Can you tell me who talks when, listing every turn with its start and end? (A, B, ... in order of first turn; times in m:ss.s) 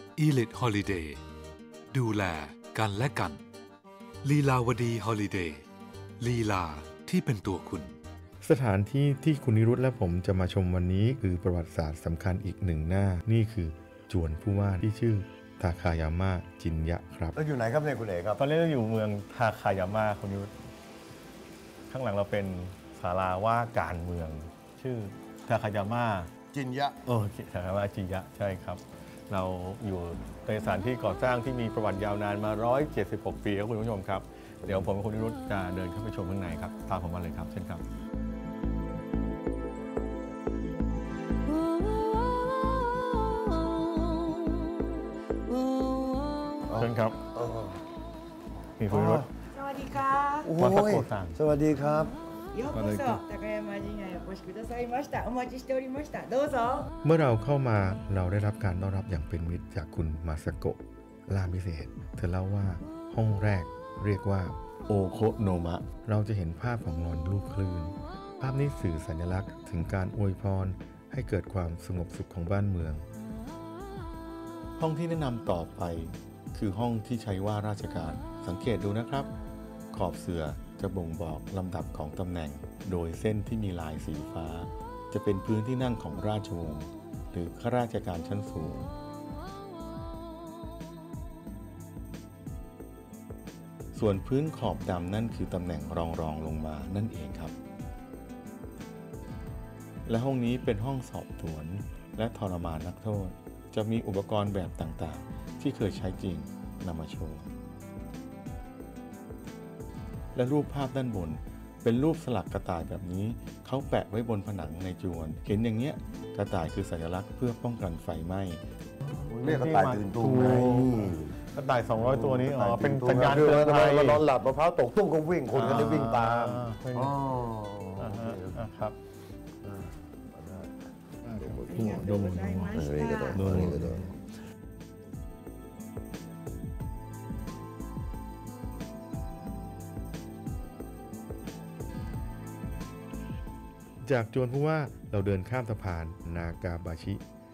0:00.2-0:01.2 A
0:01.9-0:03.4 A
0:04.2-0:05.6 A
0:06.2-0:08.0 A
0:08.4-0:17.3 B
0:17.3-0:18.4 C
0:18.4-0:20.5 D
0:21.9-0:26.3 D
0:26.5-0:27.0 C
0:27.0-0:37.8 D
0:46.7-0:47.8 C
0:46.7-0:47.2 D
0:48.8-0:49.3 D
0:48.9-0:49.2 C
0:49.5-0:50.5 E
0:50.4-0:52.1 C
0:50.6-0:51.4 D
0:52.5-0:56.9 E
0:52.7-0:53.2 D
0:57.2-1:00.8 B
1:01.3-1:04.6 B
1:04.9-1:06.2 D
1:05.9-1:13.0 B
1:14.8-1:19.3 B
1:15.0-1:15.4 D
1:17.4-1:17.9 D
1:19.9-1:28.9 B
1:33.9-1:37.5 B
1:40.1-1:47.4 B
1:50.3-1:58.6 B
1:59.3-2:01.4 C
1:59.4-2:04.2 D
2:01.9-2:08.7 C
2:05.5-2:07.2 D
2:08.0-2:08.9 D
2:09.6-2:10.8 C
2:11.3-2:12.8 D
2:11.4-2:14.2 C
2:11.7-2:13.4 E
2:13.3-2:14.1 D
2:13.5-2:13.9 B
2:24.0-2:27.2 B